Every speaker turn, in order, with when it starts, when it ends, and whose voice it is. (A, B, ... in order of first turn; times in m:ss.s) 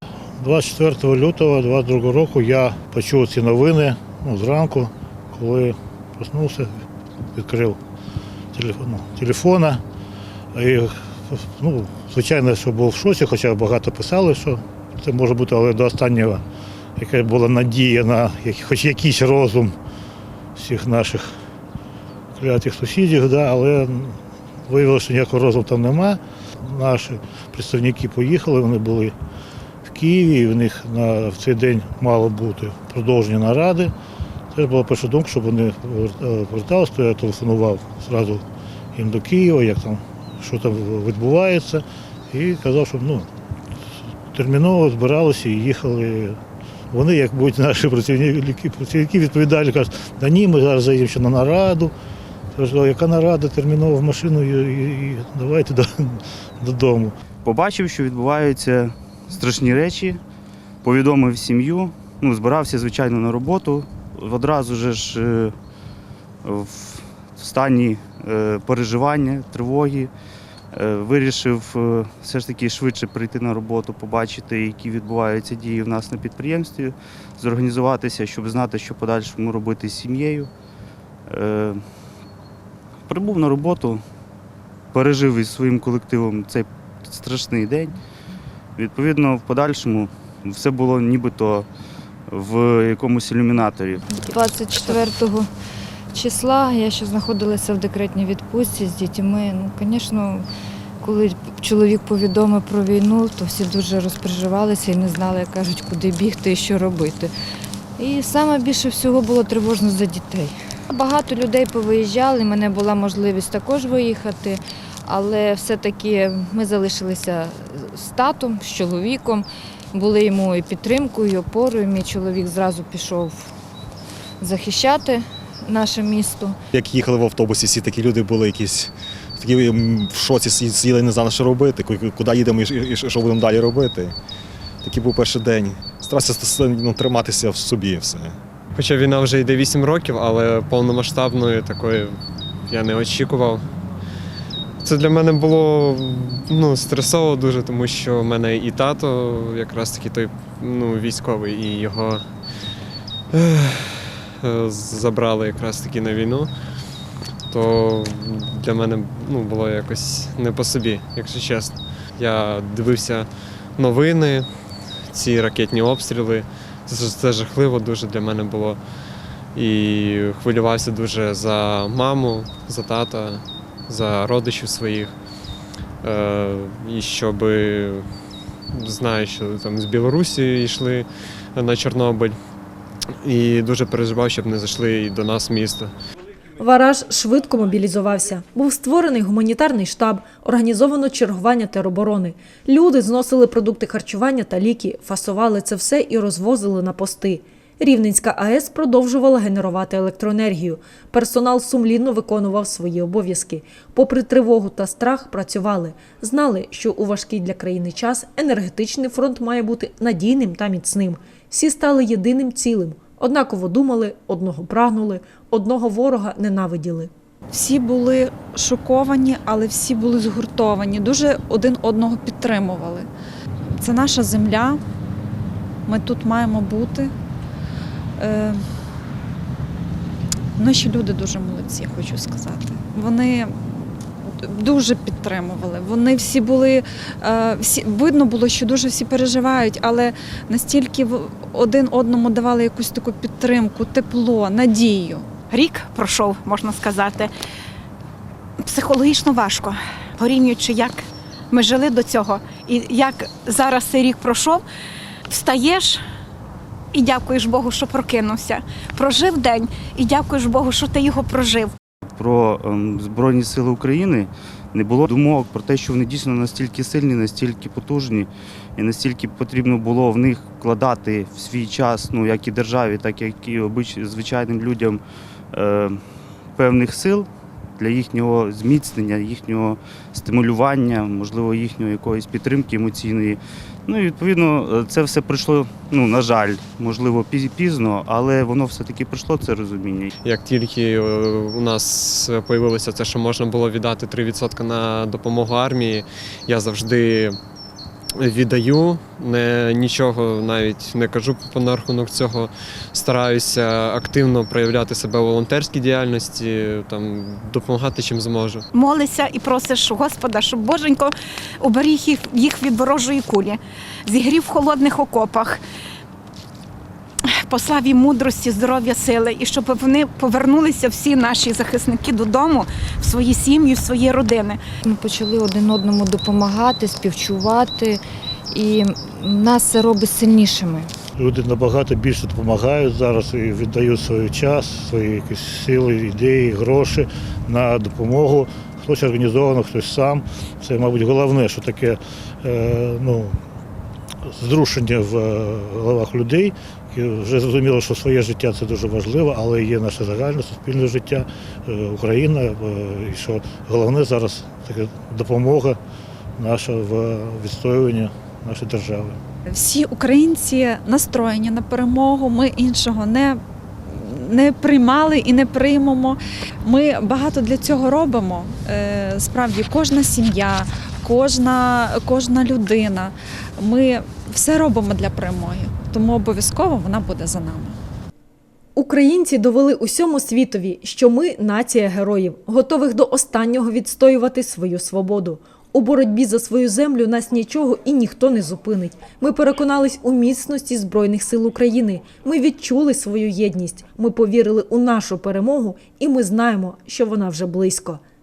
0:00.4-0:06.8 A
0:07.4-0:07.8 A
0:08.5-0:09.8 A
0:10.5-0:16.4 A
0:17.0-0:19.8 A
0:20.6-0:21.3 A
0:22.4-0:29.2 A
0:29.9-0:33.9 A
0:34.5-0:38.4 A
0:39.0-0:43.3 A
0:44.3-0:46.4 A
0:46.9-0:51.9 A
0:52.6-0:57.2 A
0:57.4-1:00.2 B
1:00.8-1:05.5 B
1:06.4-1:10.1 B
1:10.7-1:20.5 B
1:21.3-1:21.8 B
1:23.1-1:24.0 B
1:24.9-1:28.0 B
1:28.8-1:31.7 B
1:32.3-1:34.2 B
1:34.2-1:35.5 C
1:36.1-1:40.5 C
1:41.0-1:47.3 C
1:48.0-2:03.5 C
2:04.4-2:06.6 C
2:06.8-2:14.2 D
2:14.8-2:18.4 D
2:18.8-2:23.6 E
2:24.8-2:32.2 E
2:33.3-2:36.5 E
2:37.5-2:44.5 E
2:45.1-2:48.8 E
2:49.6-2:55.1 E
2:56.0-2:58.1 E
2:58.7-3:02.4 E
3:03.2-3:05.9 E
3:06.6-3:37.1 F
3:37.5-3:43.1 G
3:43.8-3:44.8 G
3:45.9-3:47.1 G
3:48.2-3:48.6 G
3:50.6-4:05.3 G
4:05.5-4:07.3 H
4:08.6-4:14.6 H
4:15.3-4:16.0 H
4:16.9-4:21.7 H
4:22.1-4:36.0 B
4:36.6-4:50.1 B
4:50.2-4:57.4 E
4:58.2-5:08.6 E
5:08.7-5:15.6 H
5:17.4-5:24.6 H
5:24.8-5:30.9 C
5:31.2-5:43.4 A
5:44.2-5:55.8 A
5:56.4-5:59.2 A
5:59.5-6:17.8 G
6:18.8-6:38.0 F